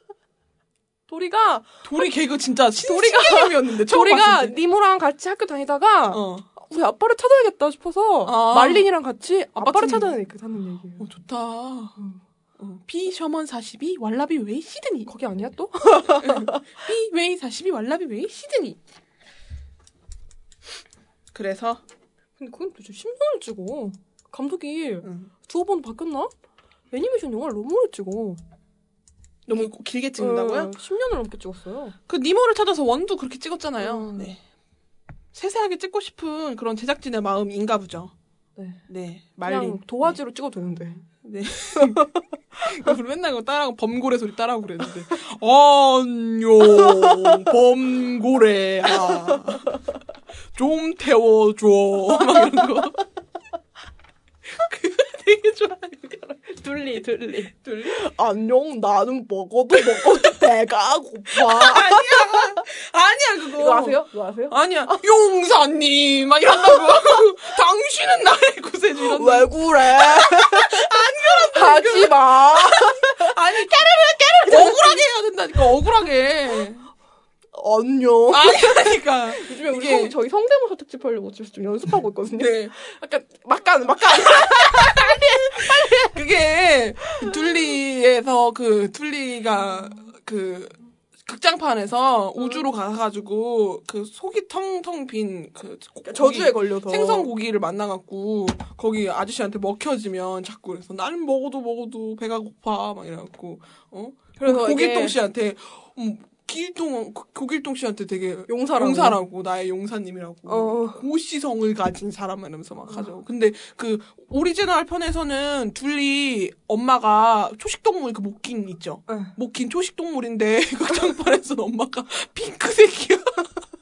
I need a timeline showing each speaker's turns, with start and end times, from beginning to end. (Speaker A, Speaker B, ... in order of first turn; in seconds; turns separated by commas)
Speaker A: 1.1-1.8, Speaker B: 1.8-4.5, Speaker A: 2.8-11.0, Speaker B: 6.1-6.5, Speaker B: 8.2-8.9, Speaker B: 9.6-10.1, Speaker B: 11.0-11.9, Speaker B: 12.6-15.1, Speaker A: 15.1-16.6, Speaker B: 16.2-18.8, Speaker B: 21.3-21.8, Speaker A: 22.4-26.3, Speaker B: 25.0-25.3, Speaker A: 26.9-28.4, Speaker B: 29.5-30.7, Speaker A: 29.6-32.0, Speaker B: 32.1-34.4, Speaker A: 33.8-34.3, Speaker B: 35.3-38.1, Speaker A: 38.6-38.8, Speaker B: 38.9-40.1, Speaker A: 39.4-41.0, Speaker B: 41.2-42.1, Speaker A: 41.8-42.1, Speaker B: 42.6-49.8, Speaker B: 50.5-53.0, Speaker B: 54.7-55.7, Speaker A: 55.7-62.6, Speaker B: 57.6-58.0, Speaker B: 61.3-76.9, Speaker A: 63.6-65.0, Speaker A: 69.0-73.3, Speaker A: 74.4-75.0, Speaker A: 77.5-86.1, Speaker B: 78.3-80.1, Speaker B: 82.4-82.7, Speaker B: 84.3-123.5, Speaker A: 96.1-97.3, Speaker A: 104.4-105.2, Speaker A: 108.5-109.2, Speaker A: 110.5-111.0, Speaker A: 119.1-119.3